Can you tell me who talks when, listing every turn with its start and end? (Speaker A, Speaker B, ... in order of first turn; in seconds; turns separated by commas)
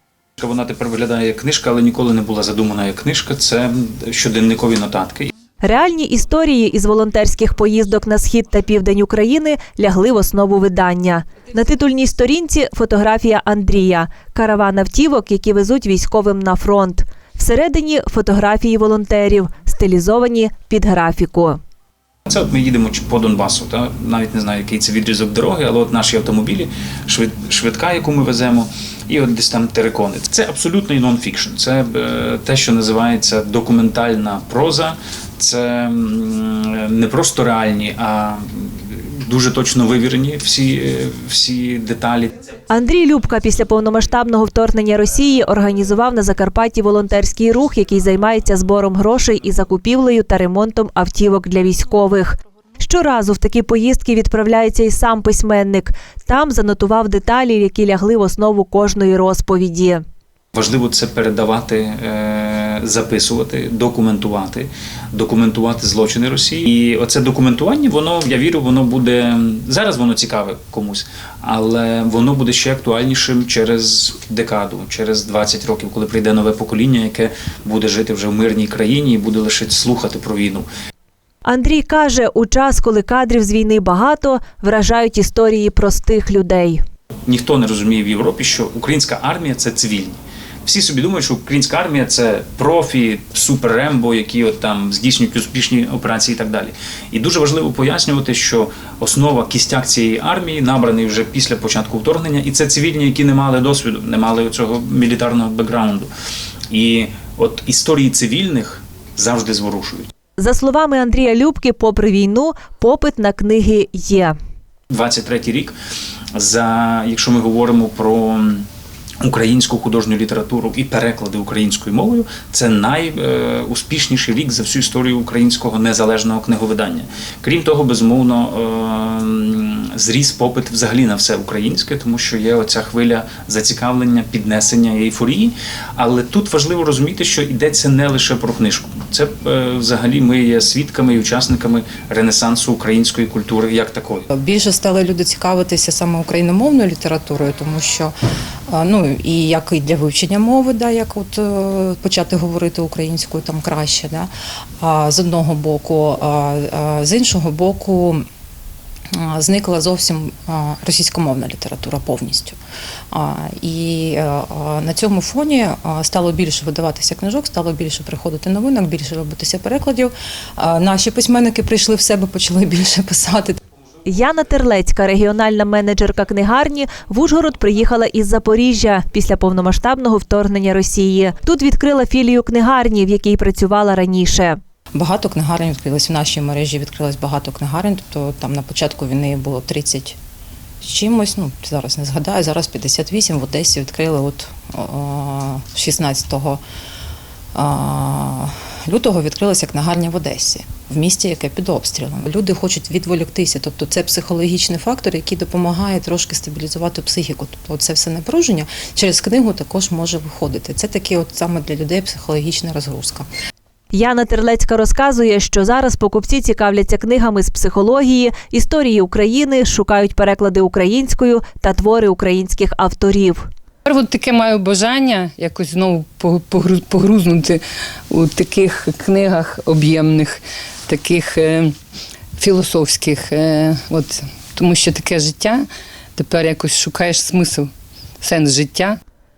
Speaker A: 0.4-5.3, Speaker B: 5.6-21.6, Speaker A: 22.3-42.3, Speaker B: 42.7-60.0, Speaker A: 60.5-80.7, Speaker B: 81.4-86.8, Speaker A: 87.3-106.1, Speaker A: 106.7-110.1, Speaker B: 110.4-114.3, Speaker A: 114.9-115.7, Speaker A: 116.3-118.7, Speaker A: 119.2-144.2, Speaker C: 144.3-148.1, Speaker C: 148.7-158.2, Speaker C: 159.1-162.6, Speaker C: 163.1-173.6, Speaker B: 174.0-184.6, Speaker C: 184.9-190.2, Speaker C: 190.8-196.6, Speaker C: 197.5-213.2, Speaker B: 213.9-223.5, Speaker D: 223.8-231.7, Speaker D: 232.4-239.0